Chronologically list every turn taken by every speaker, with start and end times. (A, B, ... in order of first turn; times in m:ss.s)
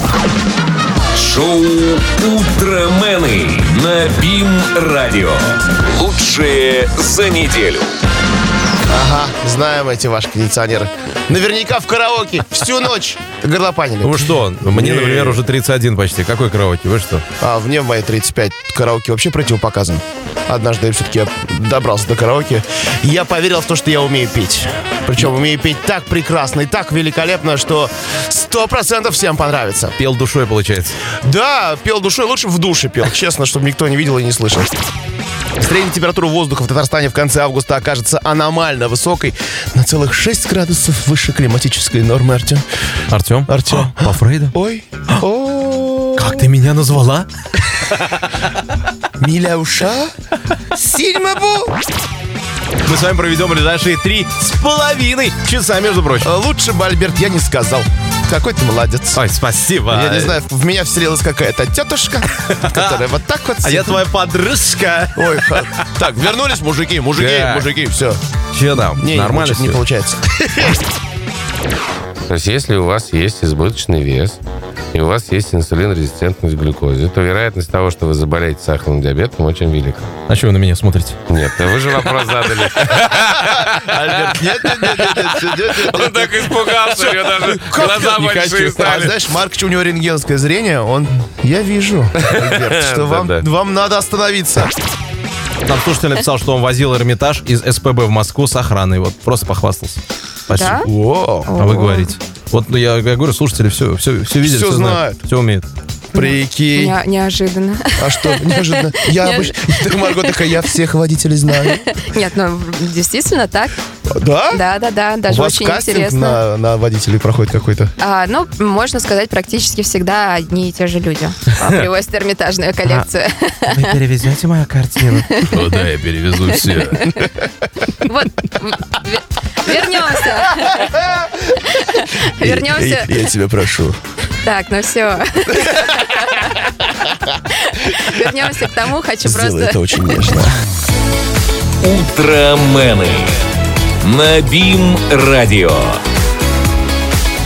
0:01.1-0:07.9 A
0:08.9-0:15.4 B
0:14.0-0:17.2 C
0:17.4-0:30.0 B
0:30.0-0:31.0 C
0:31.1-0:34.8 B
0:35.6-0:42.6 B
0:43.1-0:44.6 C
0:43.5-0:46.5 B
0:46.2-0:48.6 C
0:49.2-0:50.1 B
0:50.7-0:51.8 B
0:52.8-0:56.3 C
0:56.2-0:59.2 B
0:59.1-1:00.4 C
0:59.9-1:04.0 B
1:02.4-1:03.0 C
1:03.6-1:05.9 C
1:05.2-1:08.2 B
1:07.1-1:07.8 C
1:08.5-1:09.8 C
1:09.0-1:10.8 B
1:12.3-1:14.4 D
1:14.9-1:20.1 D
1:20.3-1:21.2 C
1:21.3-1:23.2 D
1:22.9-1:34.8 B
1:24.8-1:29.1 D
1:28.8-1:29.1 C
1:32.2-1:33.5 D
1:35.6-1:40.8 C
1:40.5-1:40.9 E
1:40.8-1:41.5 B
1:41.5-1:42.2 E
1:41.6-1:45.7 C
1:44.4-1:45.2 B
1:46.1-1:47.0 B
1:46.1-1:50.6 E
1:48.0-1:51.8 B
1:51.6-1:53.8 E
1:54.1-1:54.6 B
1:54.5-1:56.4 E
1:55.3-1:57.9 B
1:58.0-2:04.0 E
2:03.7-2:07.3 C
2:05.2-2:05.9 E
2:06.5-2:07.3 E
2:08.0-2:11.0 E
2:11.5-2:13.3 E
2:12.4-2:14.0 B
2:14.4-2:20.3 E
2:19.2-2:20.5 B
2:21.8-2:23.4 A
2:24.0-2:26.0 A